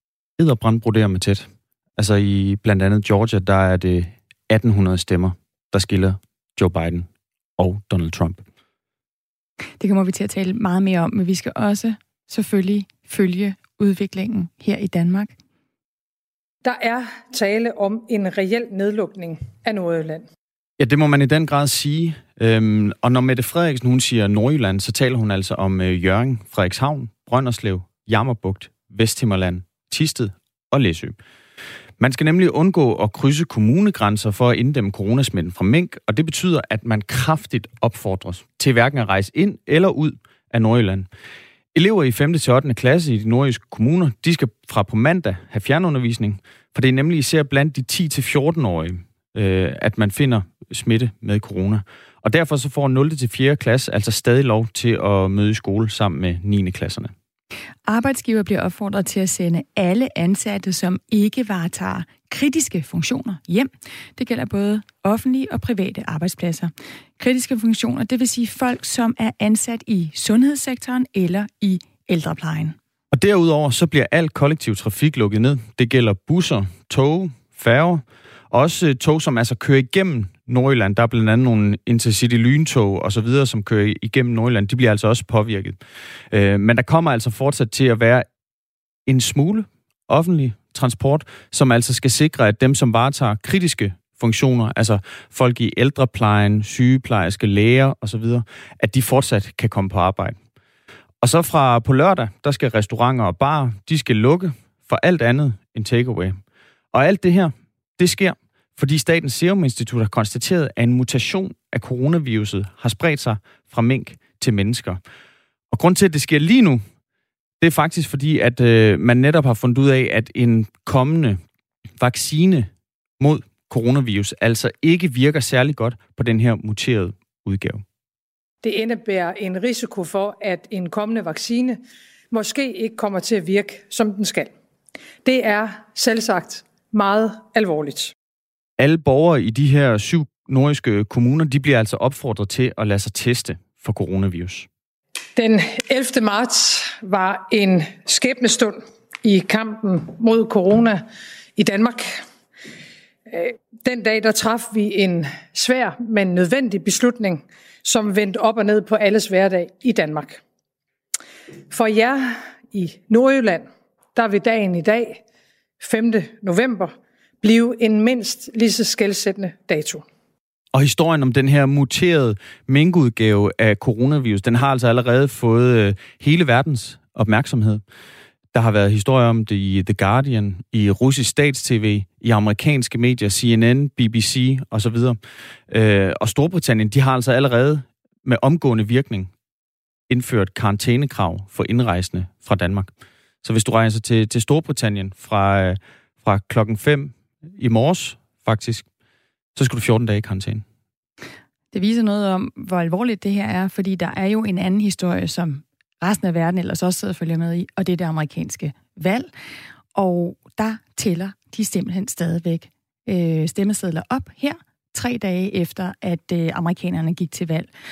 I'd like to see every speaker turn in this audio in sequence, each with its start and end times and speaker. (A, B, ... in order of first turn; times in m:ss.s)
0:00.4-0:08.4 A
0:09.8-0:15.3 B
0:16.6-0:20.2 C
0:20.8-0:31.2 A
0:32.0-0:41.1 A
0:41.7-0:57.1 A
0:57.9-1:12.8 B
1:13.1-1:25.8 A
1:26.3-1:28.3 A
1:29.0-1:40.4 A
1:41.2-1:46.4 A
1:46.9-1:55.0 A
1:55.7-1:56.8 A
1:57.6-2:01.4 A
2:02.0-2:07.8 A
2:08.6-2:14.5 C
2:15.2-2:18.1 C
2:18.8-2:24.7 A
2:25.4-2:32.2 C
2:33.3-2:40.4 C
2:41.7-2:45.2 C
2:45.8-2:50.0 C
2:50.7-2:57.8 A
2:58.5-3:09.3 A
3:10.1-3:12.9 A
3:13.4-3:18.8 A
3:19.6-3:20.6 A
3:21.7-3:29.3 B
3:29.9-3:37.7 B